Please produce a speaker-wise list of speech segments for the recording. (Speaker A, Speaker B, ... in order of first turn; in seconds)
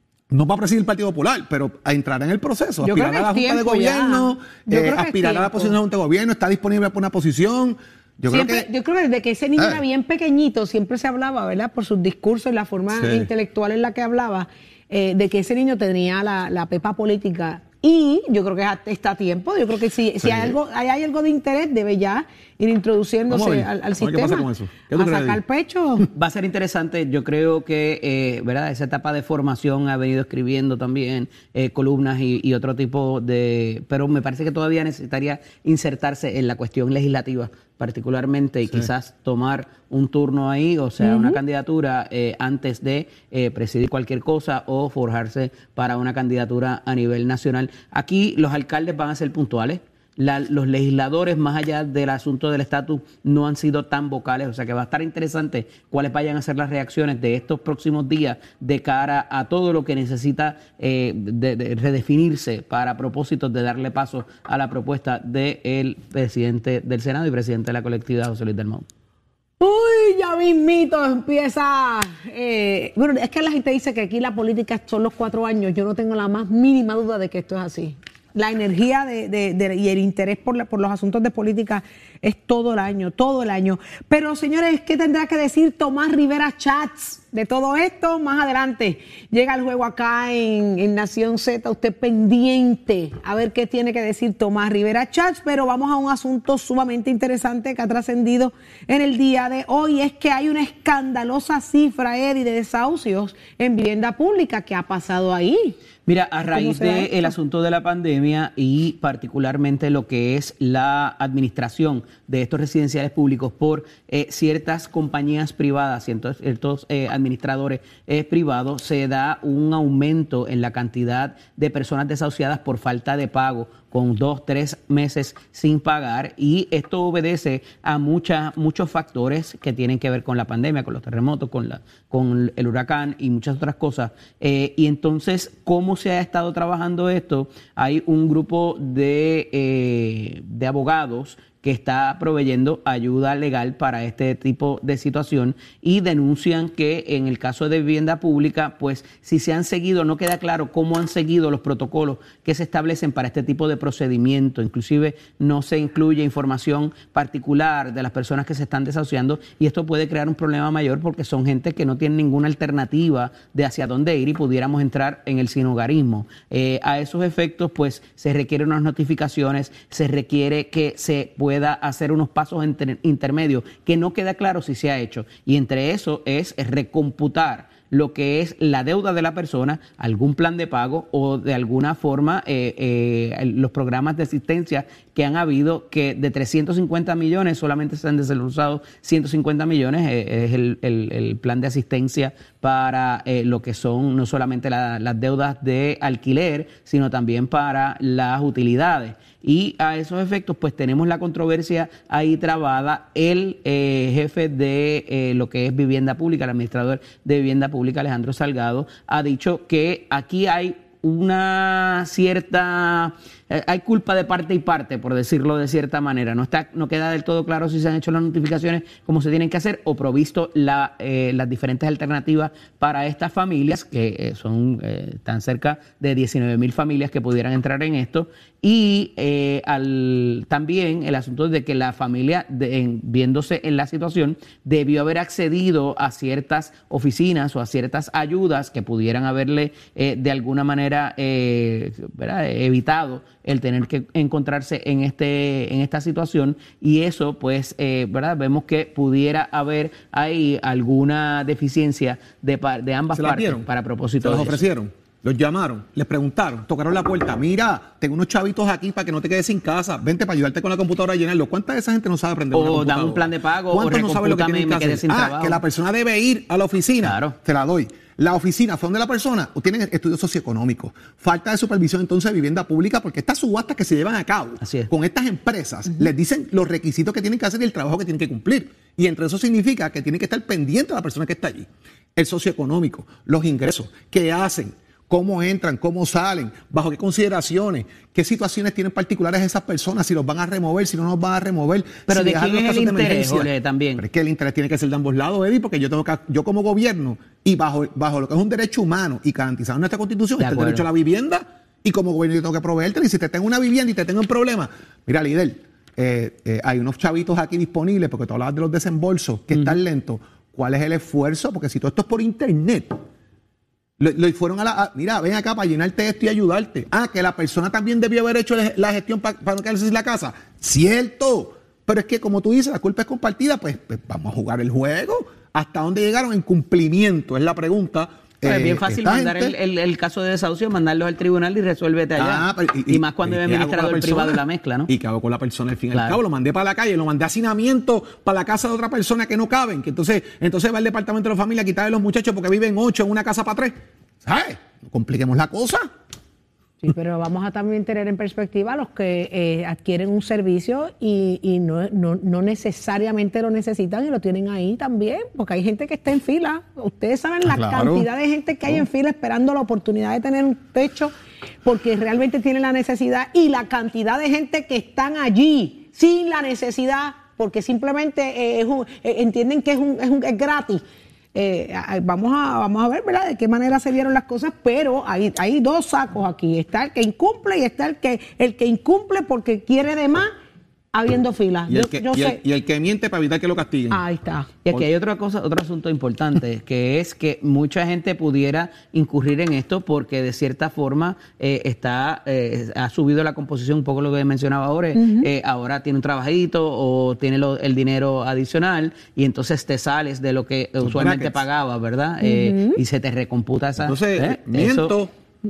Speaker A: 0.3-8.7, 9.6-9.8, 12.9-13.3, 20.2-20.6, 23.3-25.4, 253.1-253.7, 254.2-313.0, 314.0-329.6, 332.1-345.9, 357.4-358.1, 381.7-384.0, 400.8-401.4, 403.8-405.1
Speaker B: 2.8-5.8, 8.3-26.1, 41.0-41.4, 69.6-105.8, 106.5-107.3, 346.8-370.8, 371.3-380.3, 380.9-382.4, 383.9-384.5, 394.9-395.3, 402.2-402.8
Speaker C: 26.1-68.8, 106.1-254.6, 262.5-265.6, 267.0-267.4, 274.6-274.9, 292.1-294.0, 300.4-300.9, 309.5-309.8, 328.4-334.9, 335.9-336.2, 384.6-404.9